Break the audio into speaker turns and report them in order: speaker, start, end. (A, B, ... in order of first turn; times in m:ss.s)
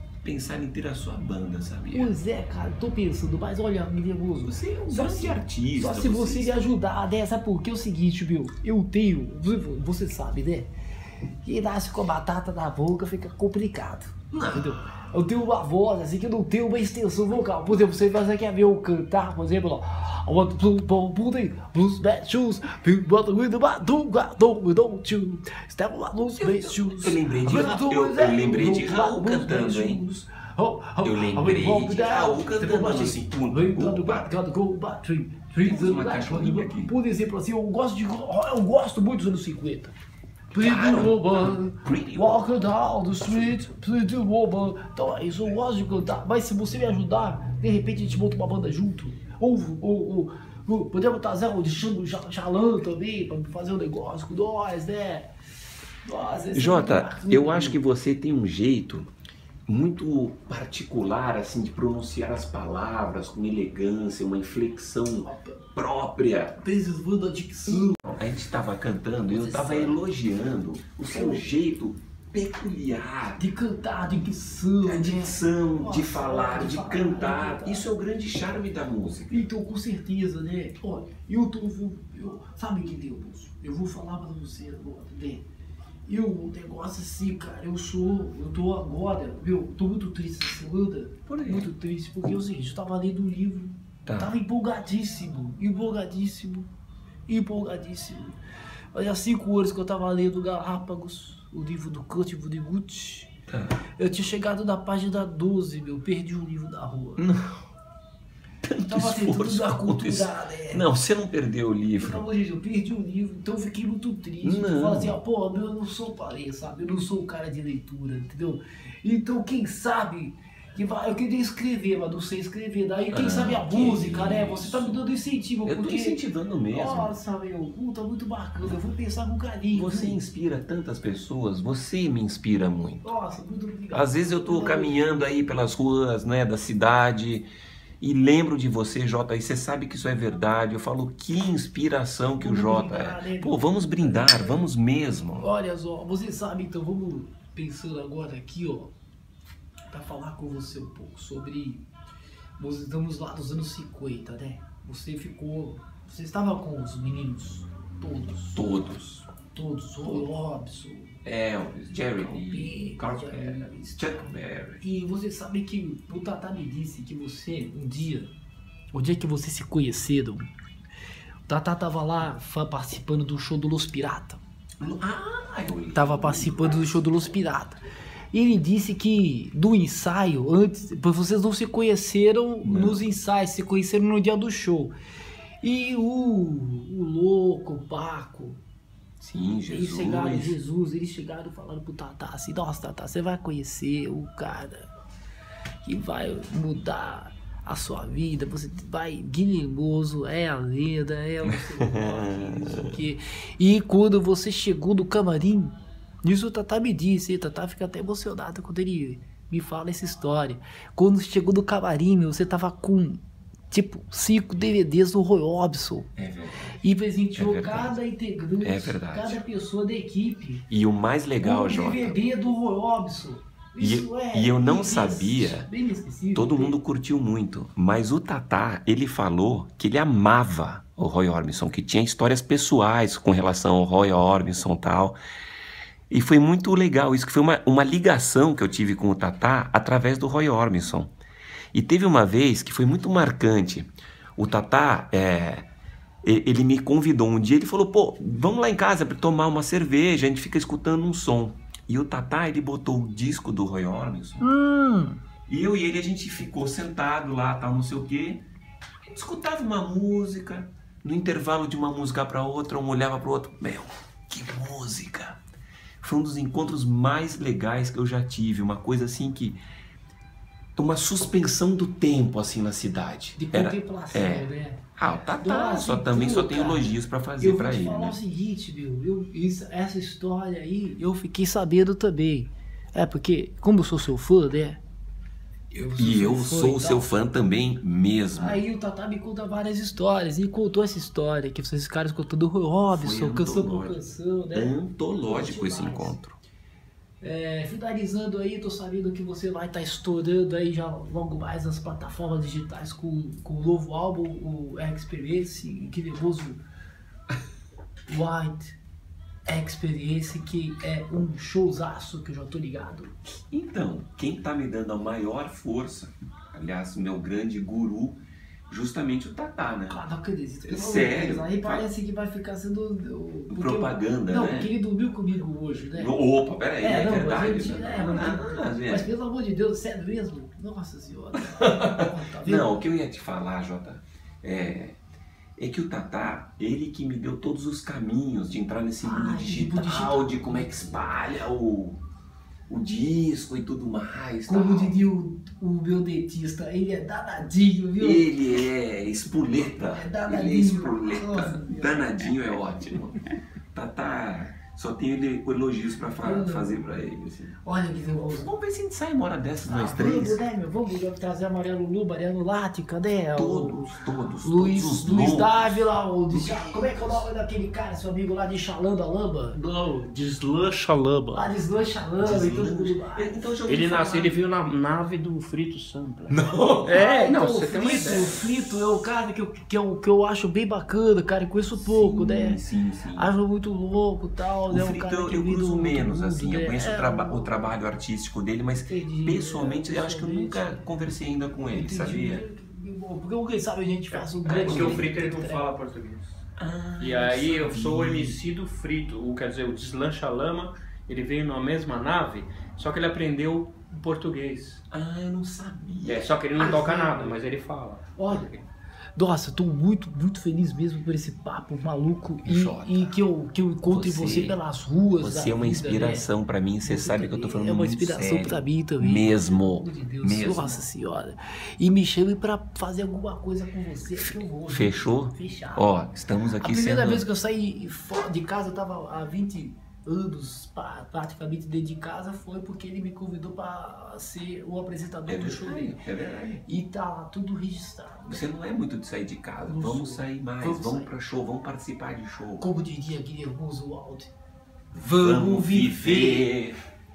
0:00.2-0:02.1 A
0:01.9-0:10.7 B
0:04.4-0:06.5 A
0:11.4-0:39.9 B
0:14.3-0:14.8 A
0:26.4-0:30.0 A
0:31.0-0:34.3 A
0:35.6-0:37.0 A
0:40.5-0:55.3 B
0:40.6-0:42.6 A
0:56.0-0:57.8 B
0:56.5-0:59.1 A
0:59.7-1:06.6 A
1:05.2-1:05.6 B
1:06.6-1:08.0 B
1:07.7-1:13.4 A
1:09.2-1:10.0 B
1:11.1-1:11.5 B
1:13.4-1:17.9 B
1:14.8-1:19.5 A
1:19.3-1:25.4 B
1:26.0-1:36.7 B
1:31.3-1:31.7 A
1:34.0-1:34.4 A
1:37.3-1:38.4 B
1:38.9-1:43.3 B
1:43.5-1:43.8 A
1:44.0-1:47.2 B
1:47.2-1:47.6 A
1:48.6-1:52.2 A
1:48.9-1:50.9 B
1:52.0-2:06.2 B
1:54.4-1:55.2 A
2:03.1-2:05.0 A
2:05.6-2:07.1 A
2:06.7-2:10.2 B
2:09.7-2:13.1 A
2:13.0-2:15.2 B
2:13.9-2:17.5 A
2:18.0-2:25.5 A
2:22.4-2:24.7 B
2:25.4-2:28.9 B
2:29.9-2:31.9 B
2:32.6-2:38.7 B
2:38.5-2:39.3 A
2:39.5-2:41.2 B
2:41.2-2:44.8 A
2:42.1-2:48.3 B
2:48.9-2:50.5 B
2:51.5-2:54.4 B
2:54.8-2:57.3 A
2:55.9-2:57.8 B
2:58.3-3:04.9 B
3:02.6-3:03.0 A
3:05.6-3:08.6 B
3:09.2-3:10.6 A
3:09.7-3:14.9 B
3:15.8-3:36.1 B
3:21.8-3:22.9 A
3:36.2-3:36.8 A
3:36.8-3:40.6 B
3:37.4-3:38.0 A
3:38.6-3:39.4 A
3:40.7-3:42.2 A
3:41.4-3:46.8 B
3:43.8-3:45.7 A
3:46.3-3:55.2 A
3:56.1-4:01.1 A
4:01.7-4:05.7 A
4:06.2-4:14.5 A
4:14.4-4:15.2 B
4:15.5-4:18.4 A
4:19.0-4:25.4 A
4:26.0-4:29.6 A
4:30.8-4:38.2 A
4:33.4-4:34.8 B
4:35.4-4:44.8 B
4:45.7-4:47.2 B
4:45.9-4:48.6 A
4:48.4-4:56.2 B
4:52.9-4:56.4 A
4:57.2-5:06.6 B
5:08.1-5:08.8 B
5:09.4-5:13.2 B
5:13.5-5:20.0 A
5:19.9-5:26.2 B
5:20.6-5:21.9 A
5:23.5-5:24.7 A
5:25.9-5:29.1 A
5:26.8-5:32.8 B
5:31.6-5:35.0 A
5:35.6-5:42.0 A
5:39.0-5:41.2 B
5:42.7-5:45.0 A
5:44.4-5:48.3 B
5:48.0-5:53.2 A
5:49.6-5:52.1 B
5:53.7-5:57.6 A
5:56.2-5:56.9 B
5:57.6-5:58.5 B
5:58.2-6:00.4 A
5:59.6-6:09.6 B
6:03.4-6:07.3 A
6:09.5-6:11.5 C
6:11.3-6:13.5 B
6:12.2-6:14.4 A
6:13.6-6:18.4 C
6:16.3-6:17.1 A
6:16.9-6:22.6 B
6:21.8-6:23.3 A
6:23.1-6:27.8 B
6:24.7-6:32.4 A
6:28.9-6:30.8 B
6:31.7-6:35.7 B
6:34.2-6:36.3 C
6:34.4-6:35.1 A
6:36.6-6:38.4 A
6:37.0-6:44.8 C
6:44.9-6:46.9 A
6:46.0-6:48.6 C
6:46.6-6:47.4 B
6:48.2-6:48.5 B
6:49.2-6:56.3 B
6:52.4-6:53.2 A
6:53.9-6:54.6 A
6:55.2-7:00.8 A
6:56.8-7:05.9 B
7:04.2-7:07.2 A
7:06.6-7:16.0 B
7:15.3-7:16.6 A
7:16.6-7:18.5 B
7:18.3-7:22.7 A
7:19.6-7:21.1 B
7:22.6-7:24.3 B
7:24.9-7:26.8 A
7:24.9-7:26.5 B